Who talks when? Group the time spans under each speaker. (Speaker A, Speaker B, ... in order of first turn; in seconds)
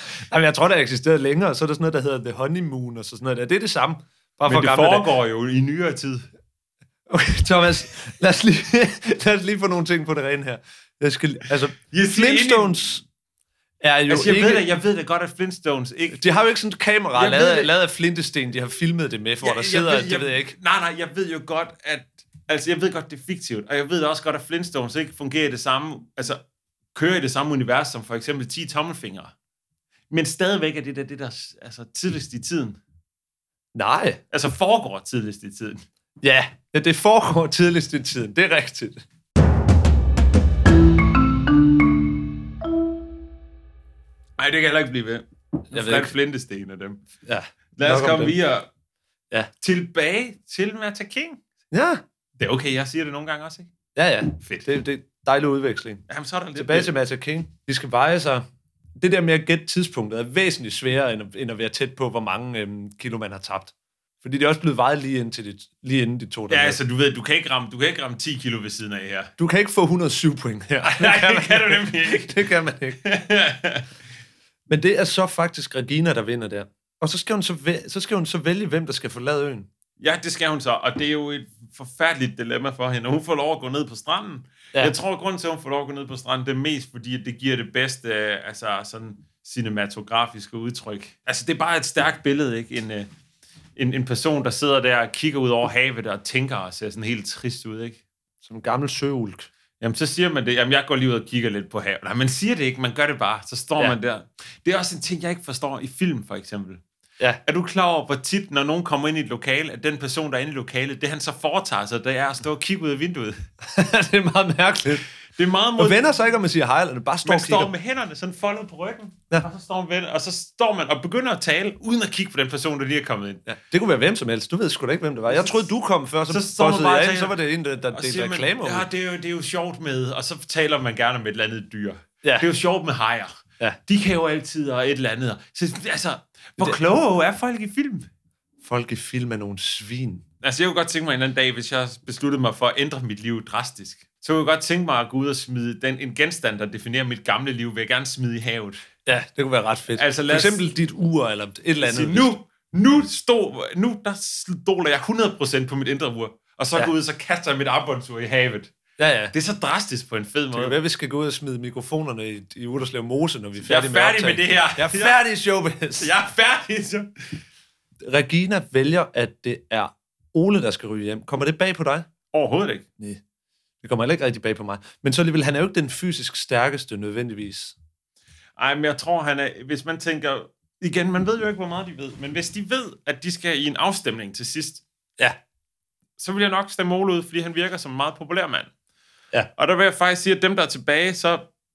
Speaker A: 0.3-5.1, 7.1-13.0, 13.8-14.7, 16.1-20.5, 33.7-34.2, 36.2-39.0, 45.7-46.1, 47.2-48.4, 51.7-52.0, 53.9-56.0, 56.5-58.5, 59.0-66.8, 69.4-73.0, 74.7-79.7, 98.4-99.5, 113.6-115.0, 115.8-117.7, 123.5-128.9, 138.6-140.2, 149.1-152.3, 159.0-159.3, 160.5-166.1, 168.0-172.1, 173.8-177.8
Speaker B: 4.5-6.3, 11.9-12.8, 14.1-16.2, 17.1-17.7, 19.4-26.4, 26.9-29.3, 30.1-32.8, 34.3-35.8, 44.4-47.0, 47.8-48.7, 49.6-51.4, 52.4-53.7, 54.4-54.7, 56.1-56.9, 66.5-69.3, 70.8-72.4, 73.0-73.8, 80.0-93.1, 93.8-98.0, 99.8-106.8, 107.4-113.4, 115.3-116.0, 117.2-123.4, 125.3-125.6, 126.3-127.3, 127.9-138.1, 140.4-148.8, 149.9-150.6, 151.8-158.7, 159.3-160.8, 163.6-165.2, 166.0-167.4, 172.3-172.9, 178.6-184.8, 186.2-188.7, 189.6-191.5